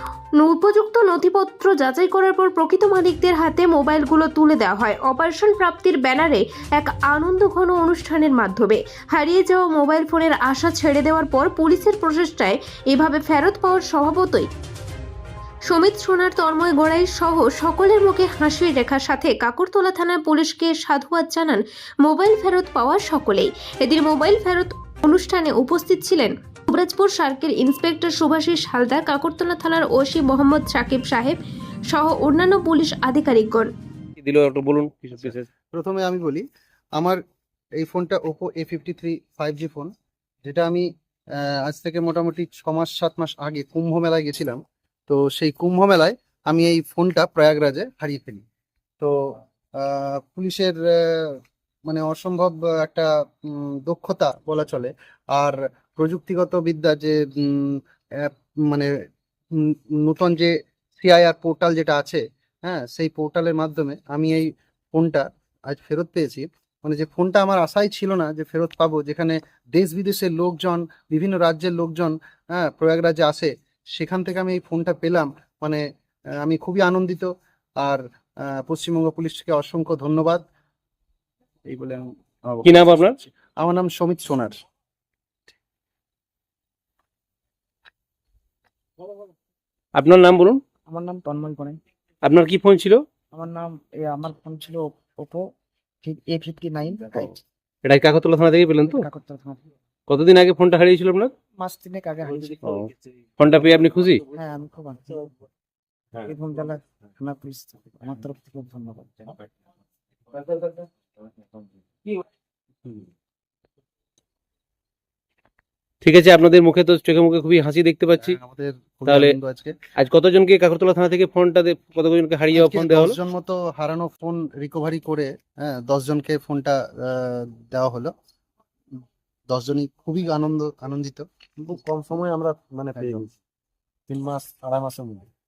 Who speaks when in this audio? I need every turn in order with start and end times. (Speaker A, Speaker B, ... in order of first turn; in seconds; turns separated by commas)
Speaker A: 0.4-14.5, Speaker A: 15.7-31.4, Speaker A: 31.9-33.7, Speaker B: 34.2-35.5, Speaker C: 35.7-36.4, Speaker C: 37.8-39.9, Speaker C: 40.4-40.9, Speaker C: 41.4-48.4, Speaker C: 49.0-58.9, Speaker C: 59.5-75.8, Speaker C: 76.4-77.3, Speaker C: 77.8-80.4, Speaker C: 81.7-84.5, Speaker B: 82.6-83.2, Speaker B: 89.9-90.6, Speaker D: 90.9-91.8, Speaker B: 92.2-93.0, Speaker D: 93.3-95.5, Speaker D: 96.0-97.4, Speaker B: 97.8-99.0, Speaker D: 98.8-99.6, Speaker B: 100.1-101.3, Speaker D: 101.6-102.7, Speaker B: 102.6-104.2, Speaker D: 104.3-105.3, Speaker D: 106.2-109.3, Speaker B: 116.0-118.4, Speaker C: 118.2-119.7, Speaker B: 119.1-119.3, Speaker B: 120.0-123.2, Speaker C: 122.5-128.1, Speaker C: 129.5-131.2, Speaker E: 131.6-133.3, Speaker C: 132.9-133.3, Speaker E: 134.1-135.3